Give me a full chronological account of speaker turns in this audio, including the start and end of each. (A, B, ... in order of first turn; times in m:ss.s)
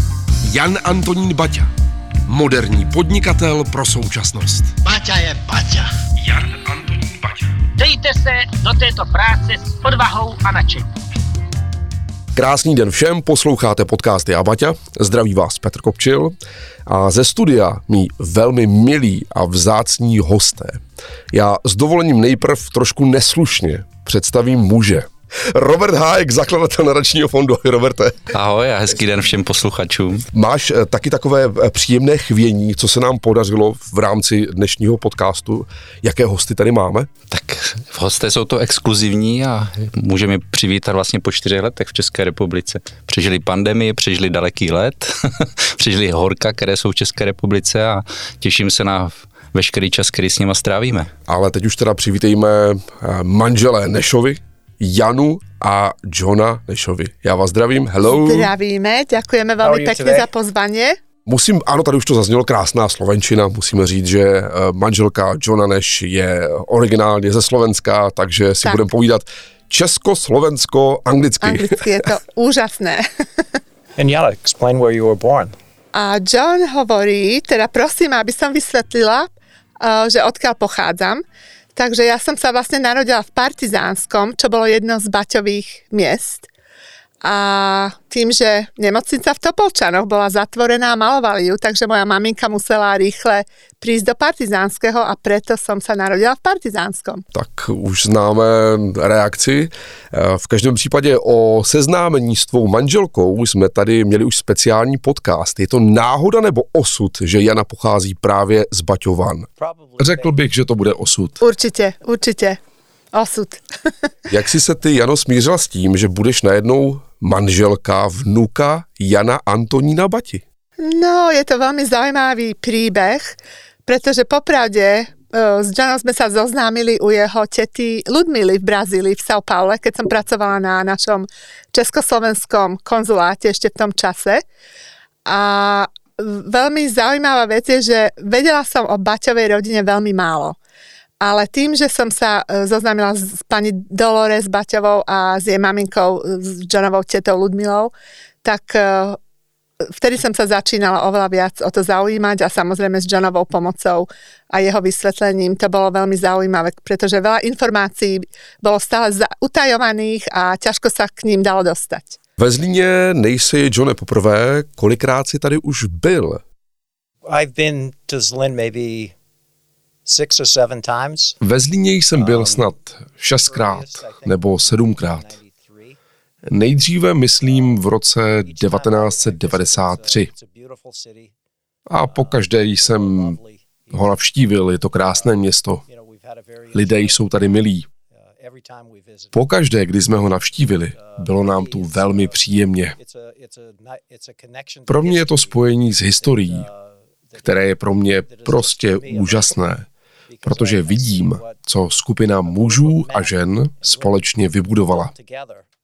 0:00.4-0:01.7 A
0:02.2-0:04.7 A
0:04.8-0:05.9 B
0:06.2-0:07.6 A
0:07.8-0:10.9 B
0:12.3-0:16.3 A
0:16.8-0:28.3 A
0:28.3-0:30.2 C
0:30.3-0:37.1 A
0:37.3-0:51.1 C
0:51.3-0:58.5 A
0:58.0-1:01.0 D
0:59.6-1:00.3 E
1:01.2-1:12.1 A
1:11.4-1:13.0 D
1:14.0-1:15.5 E
1:15.9-1:19.3 D
1:19.8-1:21.2 D
1:21.7-1:26.5 D
1:27.2-1:37.2 D
1:37.3-1:51.4 A
1:49.6-1:50.4 E
1:51.4-1:52.6 D
1:53.1-1:54.1 D
1:54.3-2:00.4 A
2:00.8-2:03.3 D
2:03.8-2:14.4 D
2:15.2-2:20.6 D
2:21.2-2:27.9 D
2:28.4-2:29.2 D
2:30.0-2:42.2 D
2:42.4-2:46.4 A
2:47.2-2:49.1 E
2:50.0-2:51.4 E
2:51.4-2:55.3 A
2:52.2-2:52.7 E
2:53.4-2:56.0 E
2:56.4-3:00.3 A
2:57.4-2:57.8 E
2:58.4-3:01.3 E
3:01.9-3:03.4 A
3:02.0-3:04.2 E
3:03.9-3:05.8 A
3:05.0-3:09.4 E
3:06.7-3:07.8 A
3:09.3-3:13.0 A
3:10.9-3:12.4 E
3:13.0-3:15.6 E
3:14.9-3:16.6 A
3:16.2-3:19.6 E
3:17.4-3:19.9 A
3:20.3-3:21.6 E
3:20.4-3:25.1 A
3:22.4-3:24.2 E
3:24.9-3:25.6 E